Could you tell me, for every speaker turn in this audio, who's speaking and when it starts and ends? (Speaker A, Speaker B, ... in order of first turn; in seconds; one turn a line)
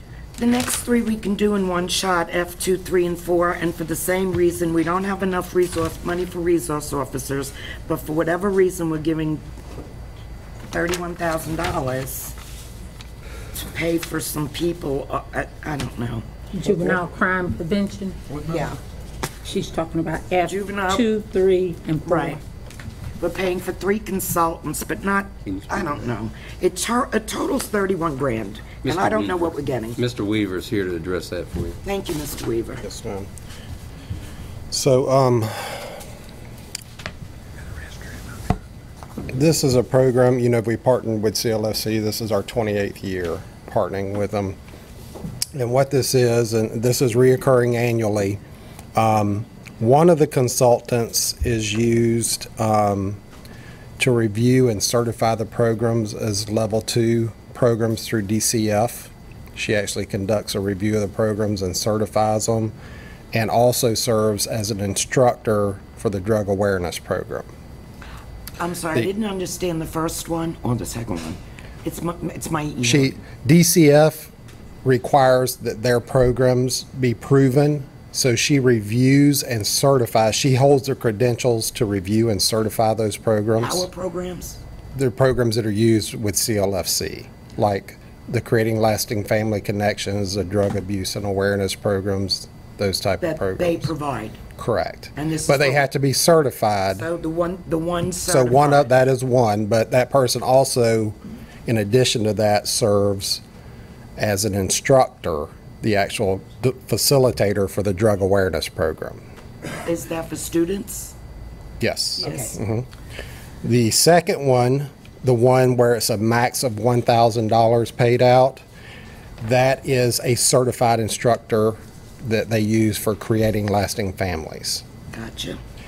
Speaker A: 0.4-9.4
Speaker A: 10.7-12.3
Speaker A: 13.5-17.0
Speaker B: 16.5-18.2
Speaker A: 18.4-18.8
Speaker B: 19.4-22.4
Speaker A: 20.4-21.1
Speaker A: 22.0-22.4
Speaker A: 23.2-30.0
Speaker C: 28.8-31.8
Speaker A: 31.8-32.8
Speaker D: 32.8-33.3
Speaker D: 34.7-35.9
Speaker D: 39.3-44.5
Speaker D: 45.5-48.4
Speaker D: 49.0-53.2
Speaker D: 54.0-62.7
Speaker D: 63.3-67.5
Speaker A: 68.6-73.1
Speaker D: 72.8-74.3
Speaker D: 74.8-83.9
Speaker A: 83.6-84.6
Speaker D: 84.9-93.9
Speaker A: 93.2-94.4
Speaker D: 94.6-97.0
Speaker A: 95.2-95.8
Speaker A: 96.9-98.9
Speaker D: 98.2-103.4
Speaker D: 104.2-109.2
Speaker A: 109.8-111.1
Speaker D: 111.8-112.9
Speaker A: 112.2-112.6
Speaker D: 113.6-118.6
Speaker D: 119.4-124.8
Speaker A: 125.1-125.6